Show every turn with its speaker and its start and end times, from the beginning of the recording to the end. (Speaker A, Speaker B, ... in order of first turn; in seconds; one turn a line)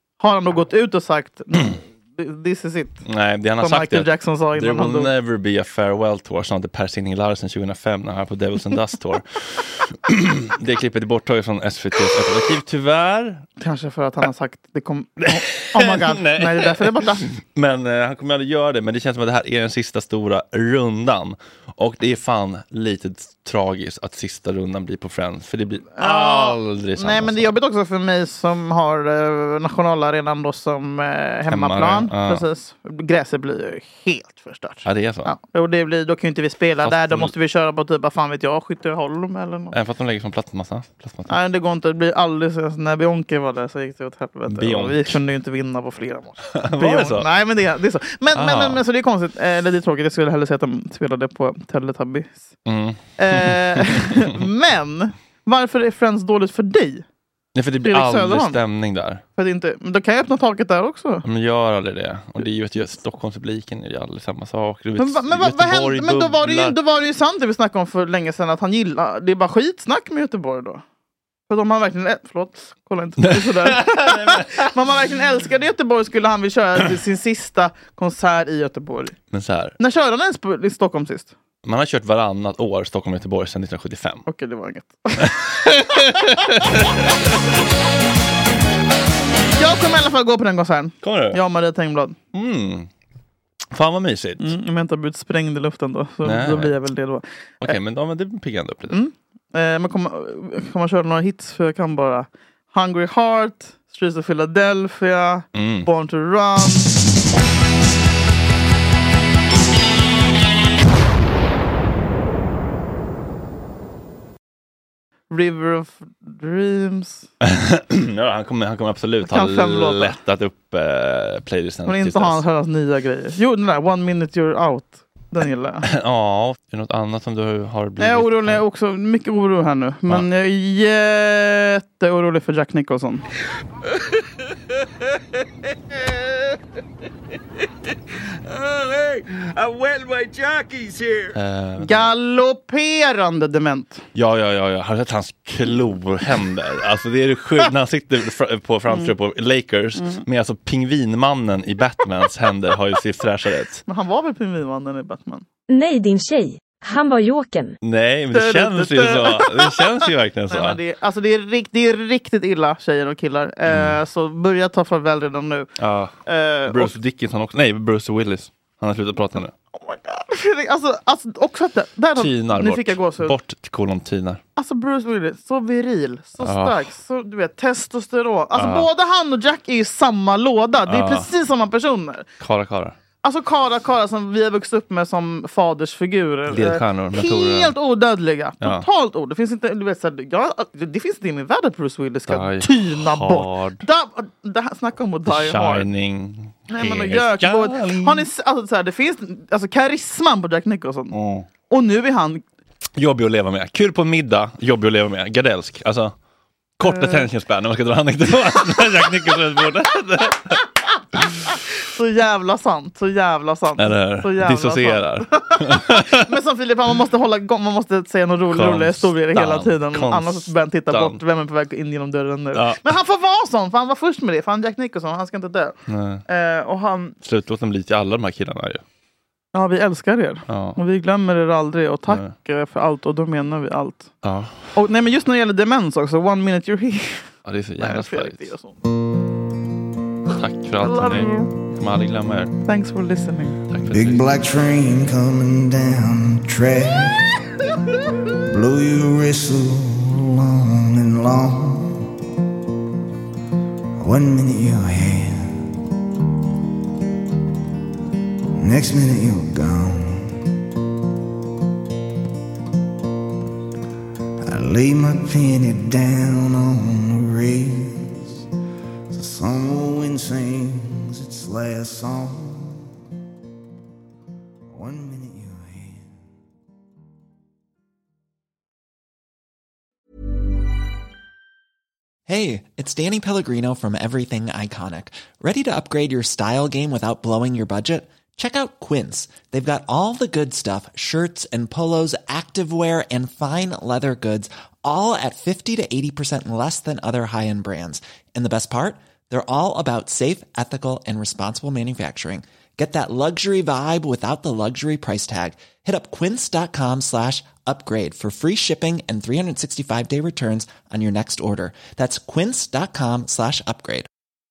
Speaker A: 0.2-3.0
Speaker B: 3.0-13.4
Speaker A: 3.6-5.1
Speaker A: 13.6-17.2
Speaker B: 15.2-27.5
Speaker A: 26.0-39.8
Speaker B: 31.5-32.4
Speaker B: 34.8-35.3
Speaker B: 36.8-37.3
Speaker B: 39.7-41.3
Speaker A: 41.3-52.5
Speaker B: 44.5-45.2
Speaker B: 46.5-47.3
Speaker B: 48.3-48.8
Speaker B: 52.6-54.3
Speaker A: 53.2-57.0
Speaker B: 57.5-59.2
Speaker A: 57.8-58.6
Speaker A: 59.4-61.2
Speaker B: 61.2-66.8
Speaker A: 65.0-70.8
Speaker A: 71.5-79.2
Speaker B: 73.3-74.6
Speaker B: 79.3-79.8
Speaker A: 79.8-81.3
Speaker B: 81.6-84.2
Speaker A: 84.2-86.2
Speaker B: 85.2-87.2
Speaker A: 89.5-92.2
Speaker B: 91.0-91.4
Speaker B: 92.3-92.9
Speaker B: 93.7-94.5
Speaker A: 94.4-97.7
Speaker B: 96.2-96.7
Speaker B: 97.6-99.0
Speaker A: 98.9-106.9
Speaker B: 105.5-105.9
Speaker A: 115.3-117.3
Speaker B: 117.4-122.4
Speaker A: 119.2-120.2
Speaker A: 121.9-125.8
Speaker B: 125.8-128.6
Speaker A: 128.0-133.2
Speaker C: 138.5-141.3
Speaker B: 141.3-142.1
Speaker A: 141.8-144.0
Speaker B: 144.1-153.8
Speaker A: 150.0-150.2
Speaker A: 153.9-155.4
Speaker D: 155.7-157.7
Speaker B: 157.8-160.8
Speaker A: 158.3-165.7
Speaker B: 163.7-164.0
Speaker B: 165.8-166.2
Speaker A: 166.2-167.0
Speaker B: 166.7-169.5
Speaker A: 169.7-173.3
Speaker B: 172.2-174.4
Speaker A: 174.6-182.2
Speaker B: 176.4-176.9
Speaker B: 178.5-178.9
Speaker B: 180.9-181.3
Speaker B: 182.4-182.9
Speaker A: 183.2-195.9
Speaker B: 186.5-187.7
Speaker B: 192.3-193.8
Speaker B: 195.2-198.3
Speaker A: 196.7-201.1
Speaker B: 201.1-201.4
Speaker A: 201.7-202.4
Speaker B: 203.0-206.1
Speaker B: 206.8-210.6
Speaker A: 206.8-207.2
Speaker A: 211.5-225.8
Speaker B: 213.8-216.2
Speaker B: 218.5-221.2
Speaker B: 222.5-222.9
Speaker B: 225.9-226.2
Speaker A: 226.3-227.2
Speaker B: 227.2-228.8
Speaker A: 229.5-234.1
Speaker B: 230.5-230.8
Speaker B: 234.2-234.7
Speaker A: 234.7-238.8
Speaker B: 237.4-238.5
Speaker B: 240.3-242.6
Speaker A: 240.8-241.5
Speaker A: 242.7-243.6
Speaker B: 243.7-244.2
Speaker E: 243.9-247.6
Speaker E: 248.4-252.1
Speaker E: 254.0-255.7
Speaker E: 258.6-260.5
Speaker E: 264.4-268.5
Speaker E: 269.1-272.9
Speaker E: 274.7-276.1
Speaker F: 282.3-314.1